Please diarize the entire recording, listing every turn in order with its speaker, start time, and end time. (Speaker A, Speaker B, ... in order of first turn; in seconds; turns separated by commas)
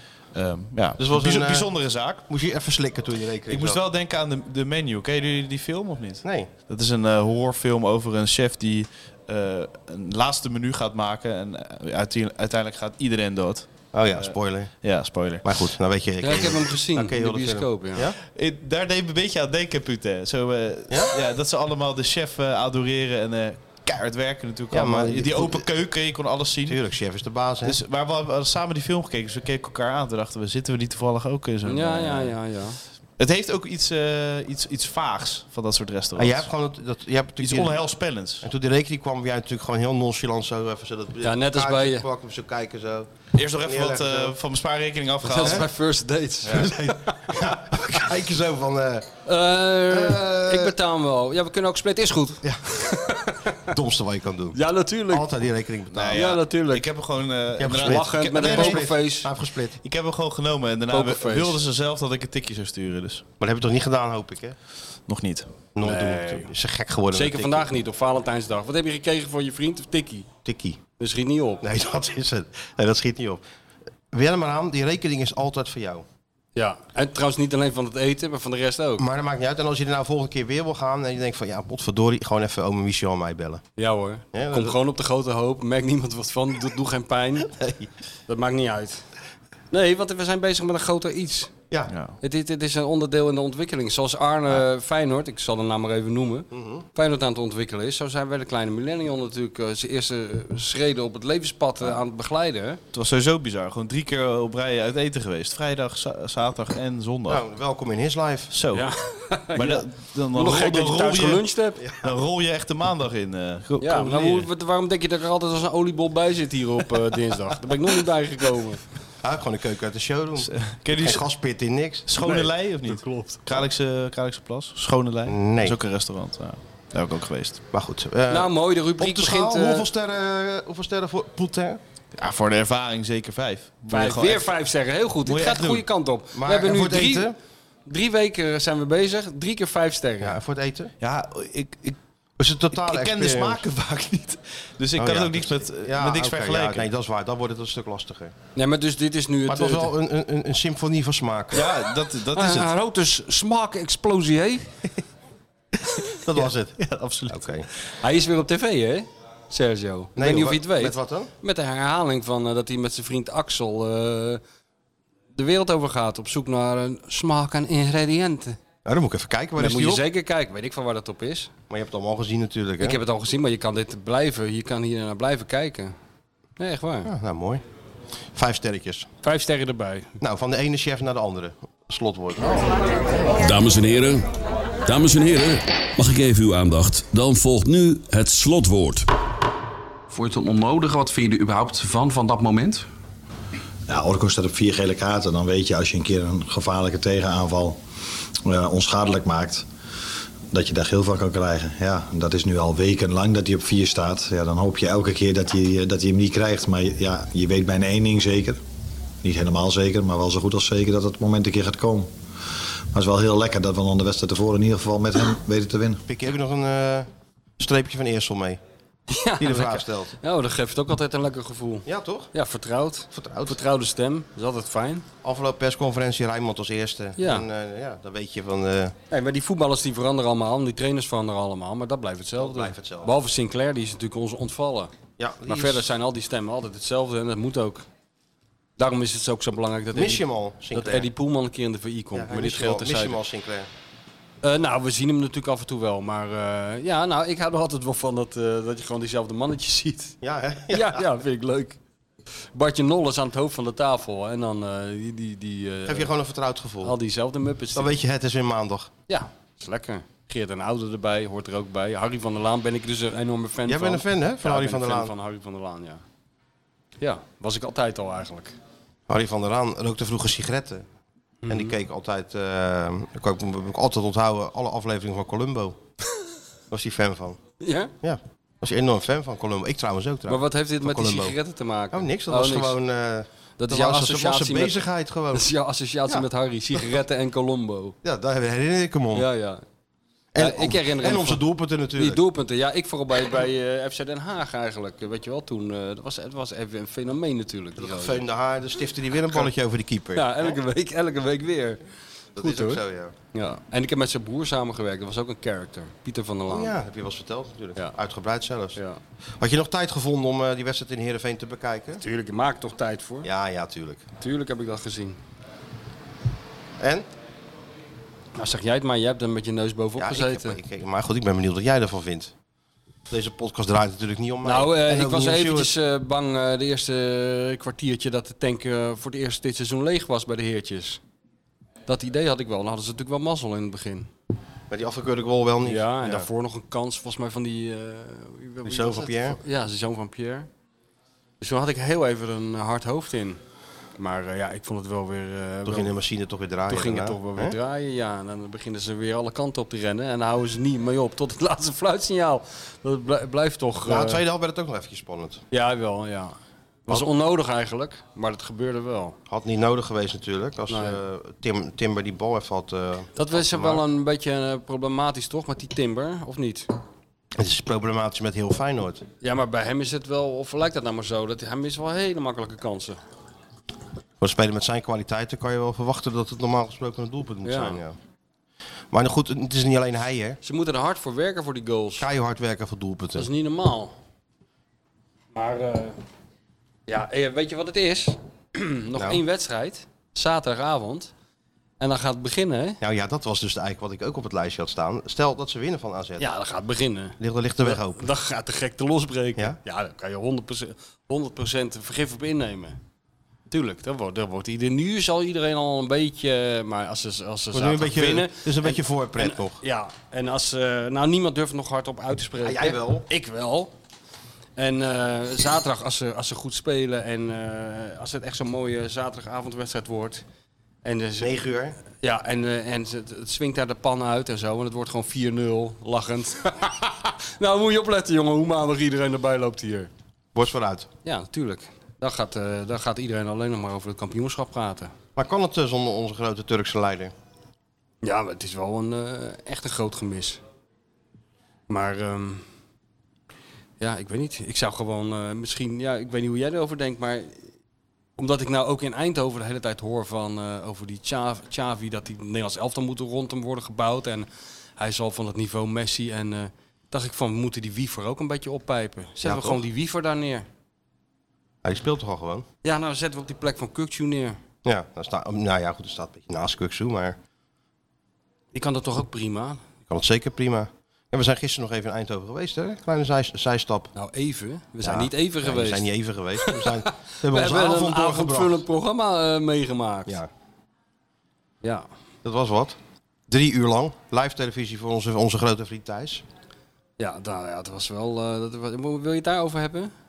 Speaker A: 0.3-2.2, Speaker B: 1.0-1.7, Speaker B: 2.3-3.8, Speaker A: 3.5-15.4, Speaker B: 6.2-6.5, Speaker B: 13.9-14.7, Speaker B: 15.4-18.2, Speaker C: 16.2-18.1, Speaker A: 18.2-26.8, Speaker B: 24.7-25.7, Speaker B: 26.7-27.8, Speaker A: 27.6-32.3, Speaker C: 31.6-32.8, Speaker A: 33.2-36.5, Speaker B: 36.1-37.8, Speaker A: 37.4-38.4, Speaker B: 38.4-43.1, Speaker C: 41.2-42.0, Speaker A: 43.3-45.7, Speaker B: 43.6-44.4, Speaker C: 45.2-47.3, Speaker A: 46.4-46.7, Speaker B: 46.5-49.1, Speaker C: 49.2-53.7, Speaker B: 49.9-50.7, Speaker B: 52.4-52.7, Speaker B: 53.7-54.6, Speaker C: 54.5-55.3, Speaker B: 55.1-56.4, Speaker A: 55.9-58.9, Speaker C: 56.1-56.8, Speaker B: 57.6-59.8, Speaker C: 57.8-59.3, Speaker A: 59.8-63.2, Speaker C: 60.9-61.6, Speaker B: 63.4-64.5, Speaker A: 65.1-65.5, Speaker B: 65.7-67.7, Speaker C: 65.8-66.5, Speaker C: 67.1-70.3, Speaker B: 70.4-70.8, Speaker C: 71.0-71.6, Speaker B: 71.6-73.4, Speaker B: 74.1-76.0, Speaker C: 76.5-79.0, Speaker B: 79.0-83.6, Speaker C: 83.8-87.5, Speaker B: 84.3-84.8, Speaker B: 87.6-87.8, Speaker C: 88.3-89.0, Speaker C: 89.7-91.5, Speaker A: 91.9-92.2, Speaker C: 92.2-102.8, Speaker B: 96.5-96.8, Speaker A: 102.9-107.4, Speaker B: 107.3-108.5, Speaker A: 108.5-108.9, Speaker C: 108.7-109.8, Speaker A: 109.5-111.5, Speaker C: 110.3-111.8, Speaker B: 111.8-112.1, Speaker A: 112.0-114.5, Speaker C: 113.8-118.8, Speaker B: 119.2-122.1, Speaker A: 120.4-121.2, Speaker A: 122.1-127.6, Speaker C: 122.2-123.6, Speaker B: 125.3-125.8, Speaker B: 127.7-131.8, Speaker C: 128.3-129.9, Speaker A: 132.2-134.5, Speaker C: 133.9-137.3, Speaker A: 135.2-135.8, Speaker B: 136.3-137.3, Speaker C: 137.8-140.4, Speaker B: 140.2-140.9, Speaker A: 141.0-142.0, Speaker B: 142.4-143.6, Speaker A: 142.7-146.9, Speaker B: 145.0-148.3, Speaker C: 148.6-149.9, Speaker B: 149.5-151.7, Speaker A: 151.5-152.7, Speaker C: 152.3-154.7, Speaker B: 156.2-157.7, Speaker A: 156.8-157.6, Speaker C: 158.0-164.4, Speaker B: 160.2-161.3, Speaker C: 165.3-168.6, Speaker B: 168.8-170.0, Speaker C: 169.6-171.5, Speaker B: 171.7-173.0, Speaker C: 172.8-175.9, Speaker C: 176.6-177.1, Speaker B: 177.0-177.6, Speaker B: 178.3-179.1, Speaker C: 179.2-180.2, Speaker B: 180.2-182.8, Speaker D: 183.4-184.3, Speaker D: 184.9-189.1, Speaker E: 190.1-192.8, Speaker F: 193.9-197.8, Speaker F: 198.4-199.6, Speaker F: 200.5-208.6, Speaker F: 209.2-212.1, Speaker F: 212.9-216.0, Speaker B: 216.1-217.1, Speaker B: 217.6-218.6, Speaker C: 219.1-225.1, Speaker B: 219.4-220.1, Speaker B: 221.8-222.3, Speaker B: 223.1-223.6, Speaker B: 225.2-228.9, Speaker C: 227.2-227.4, Speaker C: 229.1-234.9, Speaker B: 232.4-233.1, Speaker B: 235.2-235.8, Speaker C: 235.5-237.8, Speaker C: 238.8-243.2, Speaker B: 239.9-241.1, Speaker B: 242.1-243.7, Speaker C: 244.4-250.2, Speaker B: 250.2-251.0, Speaker C: 250.7-251.8, Speaker C: 252.5-256.1, Speaker B: 255.8-256.9, Speaker C: 256.8-257.9, Speaker B: 257.7-258.9, Speaker C: 259.1-266.0, Speaker B: 263.7-265.1, Speaker C: 267.0-268.6, Speaker B: 269.1-270.9, Speaker C: 271.4-271.7, Speaker B: 271.5-275.8, Speaker B: 276.7-277.4, Speaker C: 277.6-277.9, Speaker B: 278.0-281.4, Speaker C: 280.3-282.8, Speaker B: 281.9-285.5, Speaker C: 283.6-284.8, Speaker C: 285.3-287.9, Speaker B: 288.0-289.3, Speaker C: 289.1-289.6, Speaker B: 290.3-292.2, Speaker C: 290.4-291.4, Speaker C: 291.9-298.2, Speaker B: 297.8-300.5, Speaker C: 300.1-301.8, Speaker B: 302.4-303.1, Speaker C: 302.4-302.8, Speaker C: 303.3-306.8, Speaker B: 306.5-308.8, Speaker B: 309.4-312.0, Speaker C: 312.0-313.3, Speaker B: 313.2-314.0, Speaker C: 314.2-315.2, Speaker B: 316.8-317.1, Speaker C: 318.4-320.6, Speaker B: 320.0-322.3, Speaker B: 323.1-325.7, Speaker C: 324.4-331.0, Speaker C: 331.9-334.1, Speaker B: 334.7-336.3, Speaker C: 335.6-340.5, Speaker B: 338.6-339.4, Speaker C: 341.4-343.4, Speaker C: 344.0-345.9, Speaker B: 345.6-347.6, Speaker C: 346.7-354.2, Speaker B: 353.8-355.4, Speaker C: 355.5-356.4, Speaker C: 356.9-359.1, Speaker B: 359.3-363.8, Speaker C: 360.7-361.0, Speaker C: 363.1-366.7, Speaker B: 367.4-369.0, Speaker C: 369.2-373.0, Speaker B: 374.2-378.0, Speaker C: 377.4-377.8, Speaker B: 378.9-380.4, Speaker C: 380.4-382.1, Speaker B: 382.0-383.3, Speaker C: 383.2-383.9, Speaker C: 385.3-386.0, Speaker C: 386.9-391.1, Speaker B: 388.9-389.2, Speaker C: 391.8-392.8, Speaker B: 392.8-396.3, Speaker C: 396.2-402.8, Speaker B: 397.2-398.0, Speaker C: 403.5-413.7, Speaker B: 407.5-409.6, Speaker B: 412.4-413.0, Speaker C: 414.6-420.2, Speaker C: 420.8-421.3, Speaker B: 421.2-421.8, Speaker C: 421.8-429.9, Speaker B: 430.3-430.9, Speaker C: 431.0-434.9, Speaker B: 435.1-437.1, Speaker C: 438.0-440.4, Speaker C: 441.7-442.4, Speaker C: 443.8-447.4, Speaker C: 448.2-454.3, Speaker C: 454.8-460.4, Speaker B: 459.2-459.6, Speaker B: 461.6-462.4, Speaker C: 462.6-464.4, Speaker B: 464.6-467.2, Speaker C: 468.5-469.6, Speaker B: 469.9-473.9, Speaker C: 473.9-475.9, Speaker B: 474.8-478.6, Speaker C: 476.4-480.2, Speaker C: 481.6-481.9, Speaker B: 482.2-486.2, Speaker C: 487.0-489.9